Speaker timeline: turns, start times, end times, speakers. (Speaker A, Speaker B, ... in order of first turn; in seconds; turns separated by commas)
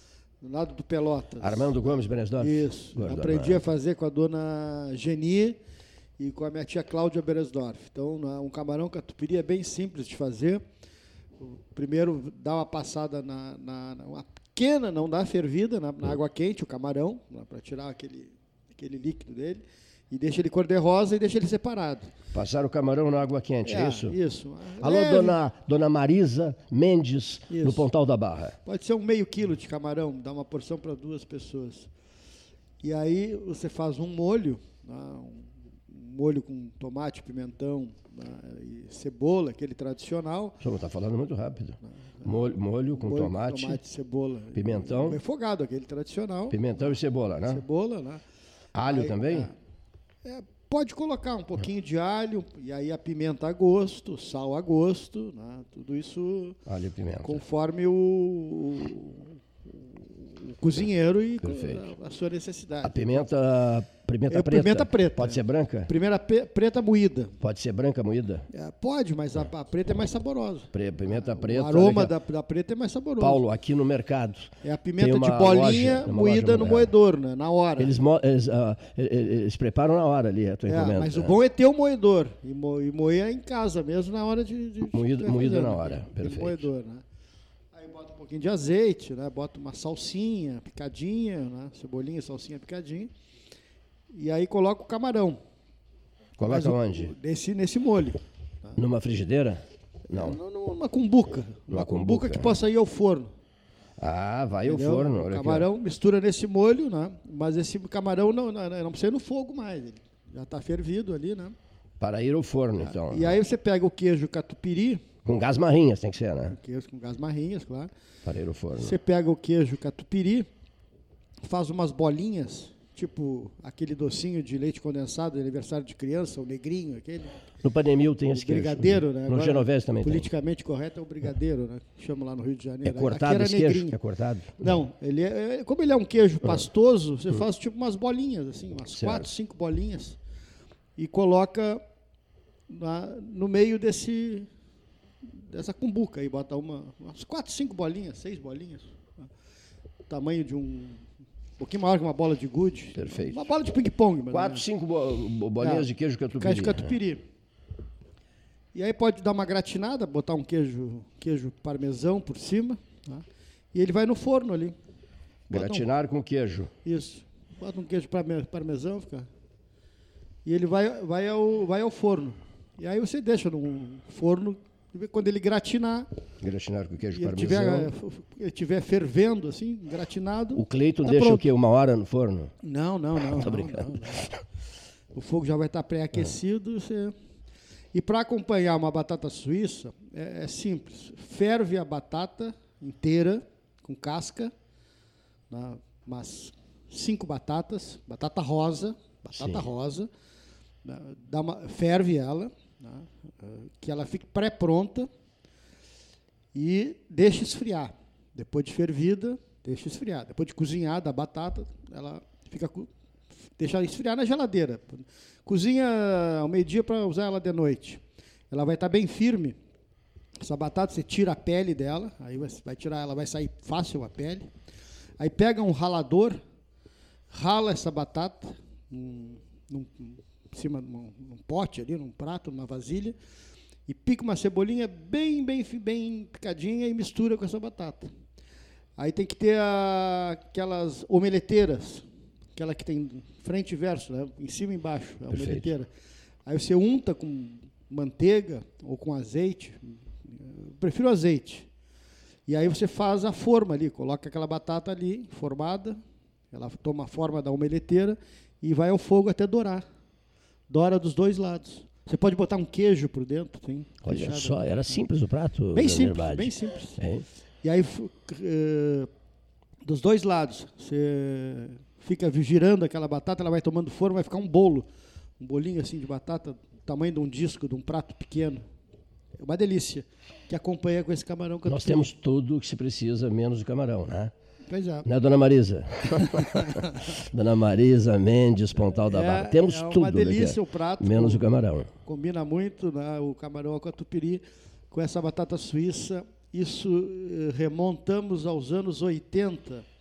Speaker A: 0.4-5.6, Speaker B: 1.4-3.7, Speaker A: 6.2-10.6, Speaker A: 11.4-22.1, Speaker B: 22.3-24.1, Speaker A: 23.6-25.4, Speaker B: 24.8-28.6, Speaker A: 27.5-27.9, Speaker A: 28.6-31.9, Speaker A: 32.8-40.6, Speaker B: 40.6-43.8, Speaker A: 41.8-42.4, Speaker A: 42.9-48.2, Speaker B: 44.5-45.2, Speaker B: 46.5-47.6, Speaker B: 48.7-49.5, Speaker A: 48.8-49.5, Speaker A: 50.2-56.6, Speaker B: 56.6-57.4, Speaker A: 57.2-63.3, Speaker B: 61.4-61.9, Speaker B: 62.8-65.9, Speaker A: 64.3-67.3, Speaker B: 67.4-68.5, Speaker A: 68.5-73.4, Speaker B: 70.7-72.1, Speaker B: 73.2-76.9, Speaker A: 74.6-77.9, Speaker B: 77.8-81.3, Speaker A: 80.7-87.0, Speaker B: 84.9-86.7, Speaker A: 87.7-93.1, Speaker A: 94.1-95.4, Speaker B: 96.4-97.1, Speaker A: 96.5-98.8, Speaker B: 98.8-100.4, Speaker A: 100.1-103.3, Speaker B: 101.7-102.5, Speaker B: 104.0-105.7, Speaker A: 104.7-111.5, Speaker B: 112.0-113.3, Speaker A: 112.8-115.0, Speaker B: 115.2-116.5, Speaker A: 116.5-117.9, Speaker B: 118.2-119.0, Speaker A: 118.8-120.5, Speaker A: 121.4-127.4, Speaker B: 127.6-130.3, Speaker A: 128.3-134.0, Speaker B: 132.8-134.7, Speaker A: 134.6-140.2, Speaker B: 138.9-139.3, Speaker A: 141.0-141.8, Speaker A: 142.7-144.5, Speaker A: 145.3-149.2, Speaker A: 150.1-151.0, Speaker A: 151.6-154.6, Speaker B: 152.9-153.4, Speaker B: 154.3-156.9, Speaker A: 155.6-157.2, Speaker A: 158.7-163.2, Speaker A: 163.7-164.7, Speaker A: 165.5-165.8, Speaker B: 165.5-166.7, Speaker A: 166.8-169.3, Speaker A: 170.4-176.1, Speaker B: 176.4-177.9, Speaker A: 177.1-181.4, Speaker B: 180.5-182.5, Speaker A: 182.6-184.3, Speaker B: 183.2-184.4, Speaker A: 185.1-187.1, Speaker A: 187.9-194.5, Speaker A: 195.5-200.1, Speaker B: 199.3-199.7, Speaker A: 200.8-205.1, Speaker A: 206.5-212.9, Speaker A: 213.6-219.6, Speaker A: 220.4-224.5, Speaker A: 225.2-226.4, Speaker A: 227.3-233.2, Speaker A: 233.9-238.1, Speaker A: 239.0-245.9, Speaker B: 245.3-245.7, Speaker A: 246.4-251.7, Speaker A: 252.5-256.0, Speaker A: 256.5-259.8, Speaker A: 260.7-265.0, Speaker B: 264.0-267.2, Speaker A: 265.7-267.0, Speaker A: 267.6-269.1, Speaker A: 269.8-274.9, Speaker A: 275.4-278.6, Speaker A: 279.4-282.1, Speaker B: 281.6-284.3, Speaker A: 284.7-285.1, Speaker B: 285.0-291.9, Speaker A: 286.2-287.0, Speaker A: 288.8-291.4, Speaker A: 292.0-299.8